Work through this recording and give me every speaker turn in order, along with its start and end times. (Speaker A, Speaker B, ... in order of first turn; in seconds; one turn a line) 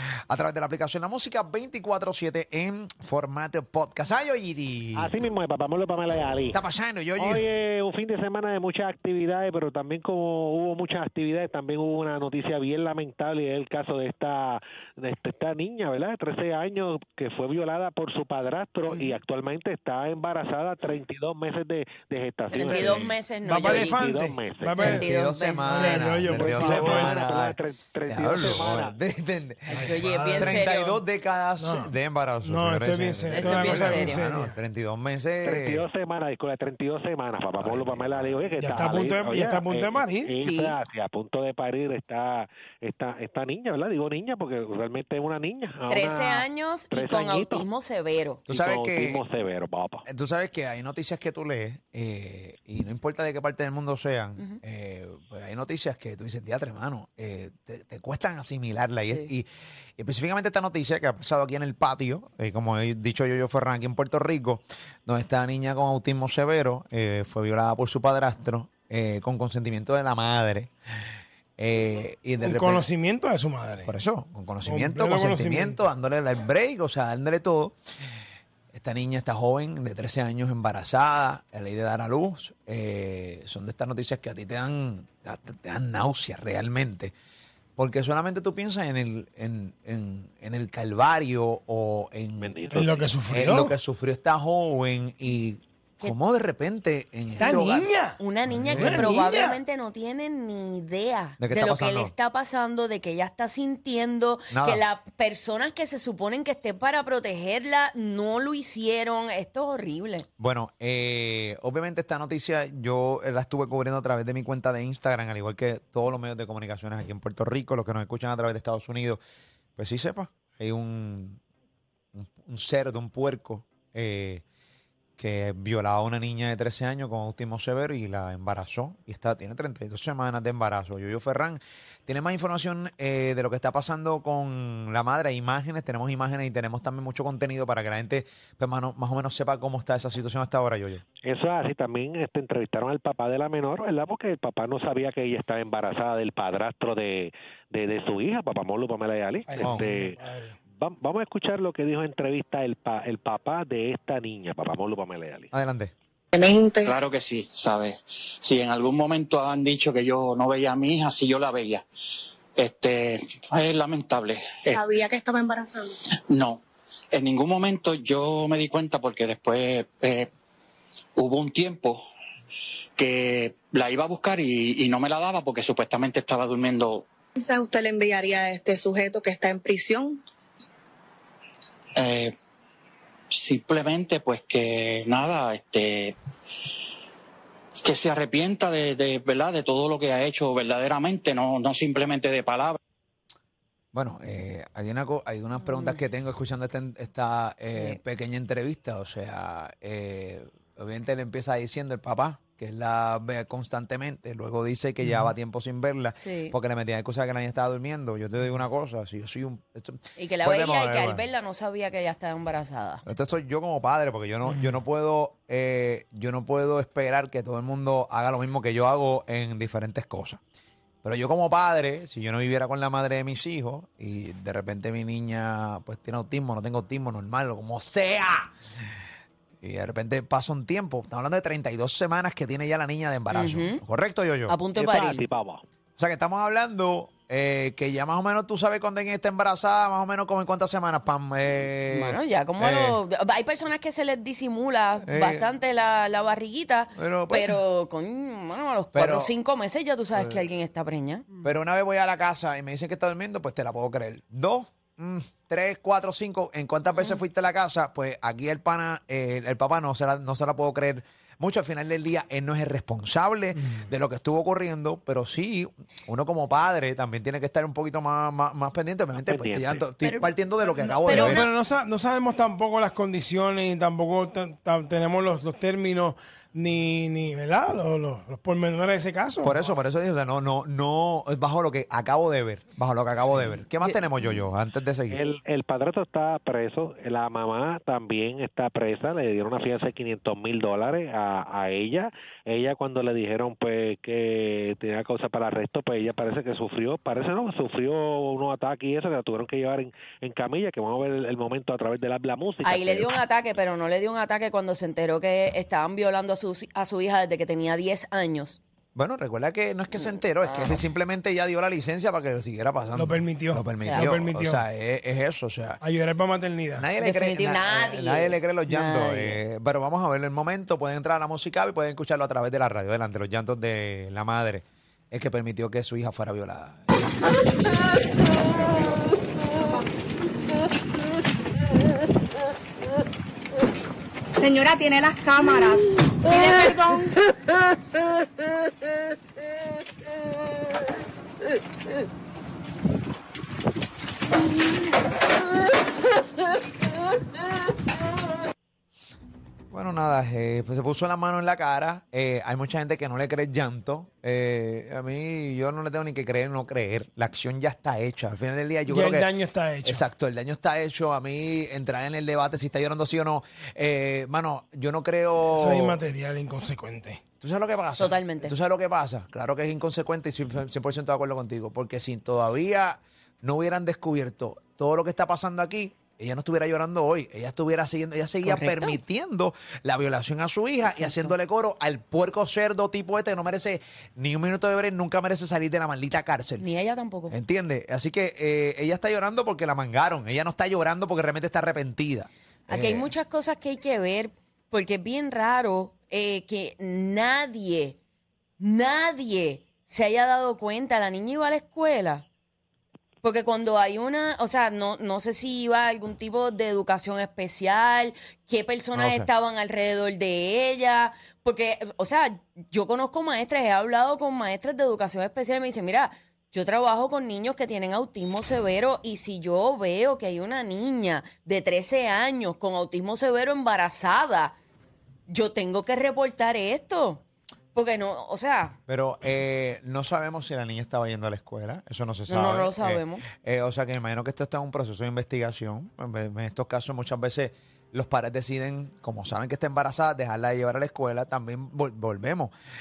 Speaker A: 0.3-5.1
Speaker B: 5.0-6.6
Speaker A: 6.5-7.5
Speaker B: 7.2-23.1
Speaker C: 18.9-19.2
Speaker C: 22.5-24.0
Speaker D: 22.6-25.1
Speaker B: 23.7-24.8
Speaker C: 24.8-27.1
Speaker A: 24.8-35.8
Speaker D: 25.7-27.2
Speaker B: 26.3-28.9
Speaker C: 29.7-31.0
Speaker D: 29.7-30.7
Speaker D: 31.6-34.6
Speaker C: 33.3-34.2
Speaker B: 35.4-47.7
Speaker A: 37.6-38.5
Speaker D: 38.6-40.3
Speaker C: 40.4-40.8
Speaker C: 45.9-48.4
Speaker A: 48.5-49.2
Speaker B: 48.5-50.0
Speaker A: 50.1-70.7
Speaker C: 59.1-59.3
Speaker A: 71.6-72.9
Speaker D: 72.4-73.9
Speaker A: 73.8-77.8
Speaker D: 74.6-75.8
Speaker A: 78.7-87.1
Speaker A: 87.8-97.9
Speaker B: 92.4-93.1
Speaker D: 92.7-93.8
Speaker D: 97.4-99.6
Speaker C: 97.4-110.3
Speaker A: 98.5-99.1
Speaker A: 101.4-102.1
Speaker A: 104.5-104.8
Speaker A: 110.4-119.2
Speaker A: 119.8-121.4
Speaker A: 122.1-124.4
Speaker A: 125.2-141.0
Speaker B: 141.2-150.2
Speaker D: 149.5-150.6
Speaker A: 149.6-149.9
Speaker B: 150.7-155.5
Speaker A: 155.5-155.9
Speaker E: 156.3-156.9
Speaker F: 156.8-161.8
Speaker F: 162.6-164.8
Speaker E: 164.7-165.9
Speaker F: 166.3-166.6
Speaker F: 167.1-170.3
Speaker F: 171.2-172.0
Speaker F: 173.0-177.1
Speaker E: 177.4-180.2
Speaker F: 182.0-182.3
Speaker F: 183.3-186.2
Speaker F: 187.8-192.8
Speaker A: 193.9-211.3
Speaker C: 195.6-196.0
Speaker C: 197.7-198.0
Speaker C: 206.2-206.6
Speaker C: 210.2-213.0
Speaker A: 213.1-220.4
Speaker A: 221.0-228.5
Speaker A: 229.6-234.6
Speaker C: 233.3-233.8
Speaker C: 234.5-235.2
Speaker B: 234.8-235.6
Speaker A: 236.0-243.0
Speaker C: 241.9-251.2
Speaker A: 245.0-245.5
Speaker A: 246.9-247.6
Speaker A: 248.9-249.3
Speaker A: 250.1-250.5
Speaker A: 251.4-271.5
Speaker C: 257.0-257.2
Speaker B: 269.3-269.9
Speaker C: 270.0-271.5
Speaker D: 271.1-279.7
Speaker A: 279.4-285.2
Speaker C: 283.8-284.5
Speaker B: 285.1-303.2
Speaker C: 302.6-308.6
Speaker A: 308.9-315.8
Speaker C: 310.0-310.8
Speaker D: 312.9-314.6
Speaker C: 313.8-314.1
Speaker D: 315.8-316.9
Speaker A: 316.8-327.3
Speaker C: 317.0-319.4
Speaker E: 334.4-337.1
Speaker A: 349.7-359.3
Speaker D: 358.9-360.0
Speaker A: 359.8-366.0
Speaker D: 365.5-367.2
Speaker A: 367.4-386.6
Speaker C: 368.0-368.6
Speaker C: 378.4-379.0
Speaker C: 380.8-381.4
Speaker C: 386.6-387.4
Speaker A: 387.3-393.1
Speaker C: 392.7-398.0
Speaker C: 398.6-402.2
Speaker C: 403.2-424.5
Speaker A: 408.9-409.3
Speaker C: 425.3-427.2
Speaker C: 427.7-428.8
Speaker A: 428.9-442.5
Speaker C: 432.3-433.2